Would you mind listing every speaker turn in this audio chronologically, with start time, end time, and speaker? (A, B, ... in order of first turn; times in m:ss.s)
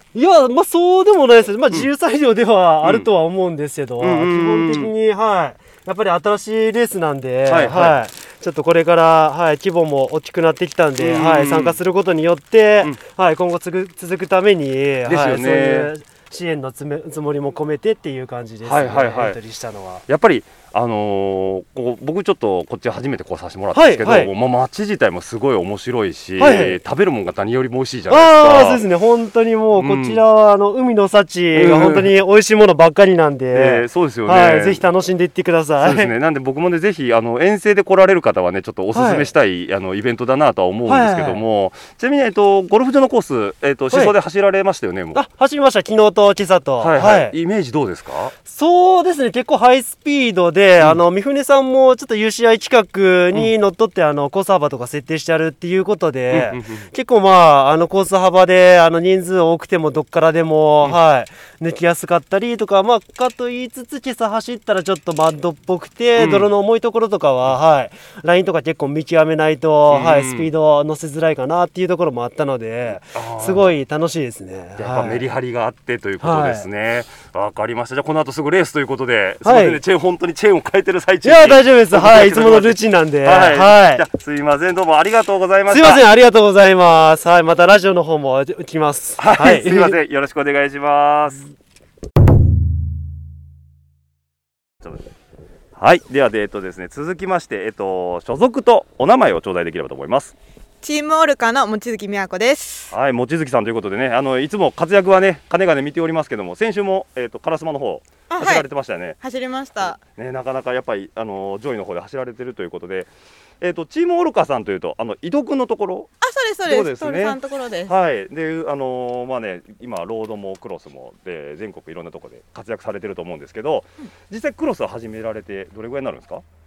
0:00.1-0:20.0 A
0:02.8-0:03.1 B
0:04.0-0:04.9 B
0:07.4-0:08.0 B
0:11.0-0:11.8 B
0:15.0-0:15.9 B
0:18.6-0:19.4 B
0:20.1-0:28.8 B
0:23.7-0:24.3 A
0:26.4-0:26.8 A
0:28.1-0:36.1 A
0:29.7-0:30.2 B
0:31.5-0:32.1 B
0:33.5-0:34.8 B
0:35.8-0:45.2 B
0:38.9-0:39.3 A
0:40.9-0:41.4 A
0:45.1-0:47.3 A
0:46.8-0:48.3 B
0:48.4-1:15.2 A
0:56.3-0:56.9 B
1:06.2-1:06.5 B
1:09.9-1:10.5 B
1:13.1-1:13.7 B
1:14.8-1:26.0 B
1:16.2-1:16.6 A
1:19.4-1:19.8 A
1:21.2-1:24.0 A
1:25.7-1:30.0 A
1:29.2-1:31.4 B
1:35.8-1:40.3 B
1:40.8-1:42.9 C
1:42.9-1:49.2 B
1:48.3-1:48.7 C
1:49.2-1:50.0 C
1:49.8-1:53.1 B
1:53.6-1:56.1 B
1:56.2-1:57.9 C
1:56.6-2:06.4 B